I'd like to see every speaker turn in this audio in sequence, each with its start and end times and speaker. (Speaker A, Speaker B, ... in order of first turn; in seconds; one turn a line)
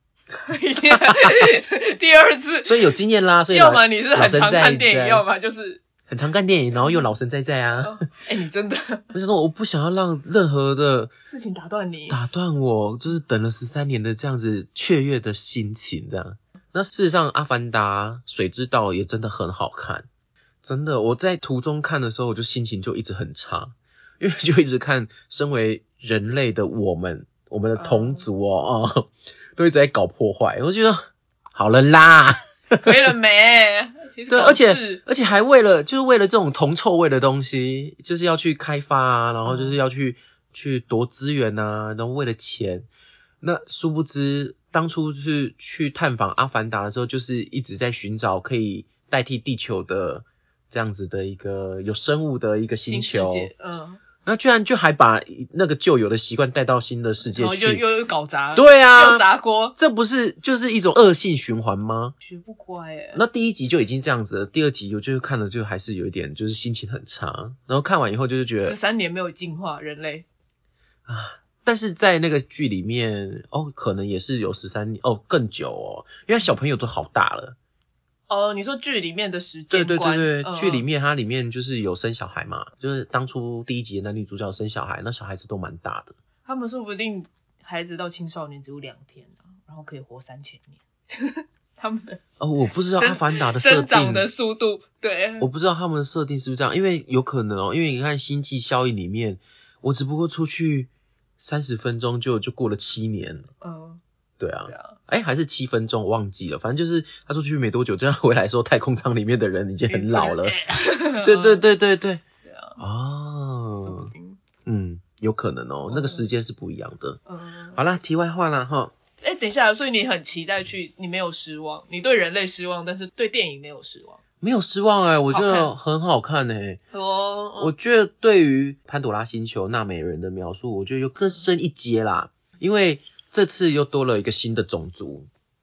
Speaker A: 0.3-2.9
Speaker B: 1.1-1.3
Speaker B: 2.6-5.2
Speaker A: 3.5-5.8
Speaker B: 6.1-8.0
Speaker A: 6.8-7.0
Speaker A: 7.8-9.1
Speaker B: 9.1-11.1
Speaker A: 11.2-12.2
Speaker B: 12.1-20.1
Speaker B: 20.6-32.9
Speaker A: 27.8-28.2
Speaker A: 32.8-35.0
Speaker B: 34.3-42.9
Speaker A: 39.4-39.8
Speaker B: 43.4-53.5
Speaker A: 52.9-54.0
Speaker B: 54.2-57.8
Speaker A: 57.2-59.8
Speaker B: 58.5-59.2
Speaker B: 59.8-62.1
Speaker A: 62.2-63.2
Speaker B: 63.1-68.8
Speaker A: 68.6-70.3
Speaker B: 71.1-77.6
Speaker A: 78.3-80.8
Speaker B: 79.7-86.1
Speaker A: 86.5-92.2
Speaker B: 92.4-94.3
Speaker A: 93.0-95.5
Speaker B: 95.4-103.5
Speaker A: 103.6-104.0
Speaker B: 104.4-110.6
Speaker A: 104.7-105.0
Speaker A: 109.9-111.6
Speaker B: 111.1-112.2
Speaker A: 112.5-112.8
Speaker B: 112.8-114.1
Speaker A: 113.8-114.4
Speaker B: 114.7-117.2
Speaker A: 115.9-116.3
Speaker A: 117.3-117.8
Speaker B: 117.8-118.9
Speaker A: 119.2-124.2
Speaker B: 124.4-126.8
Speaker A: 125.3-125.7
Speaker A: 126.9-127.7
Speaker B: 127.6-135.3